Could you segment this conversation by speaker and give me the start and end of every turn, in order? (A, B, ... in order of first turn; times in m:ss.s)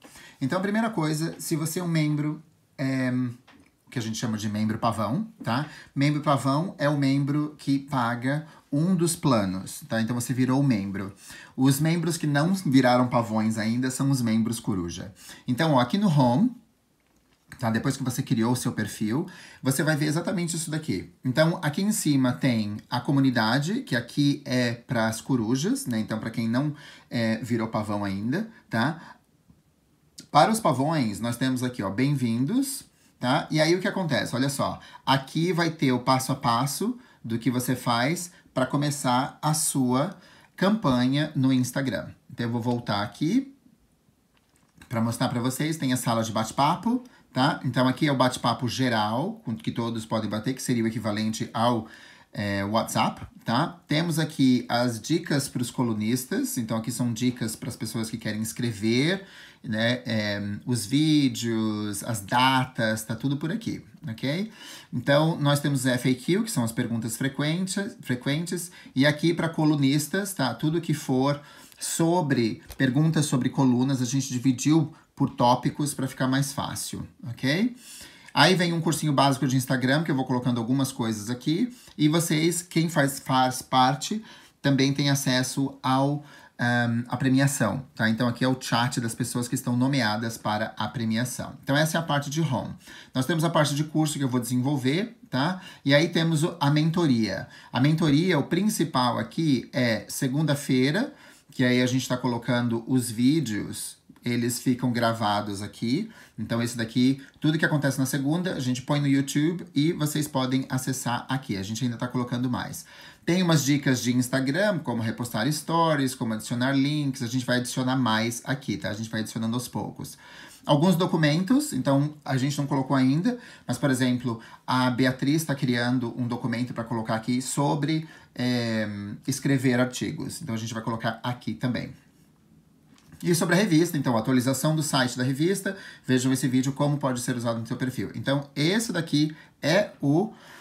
0:00.4-0:03.4 A
0:03.9-0:16.6 A
0:17.6-0:29.0 A
0:30.3-0:43.5 A
0:44.9-1:17.7 A
1:18.3-2:11.9 A
2:13.2-2:20.3 A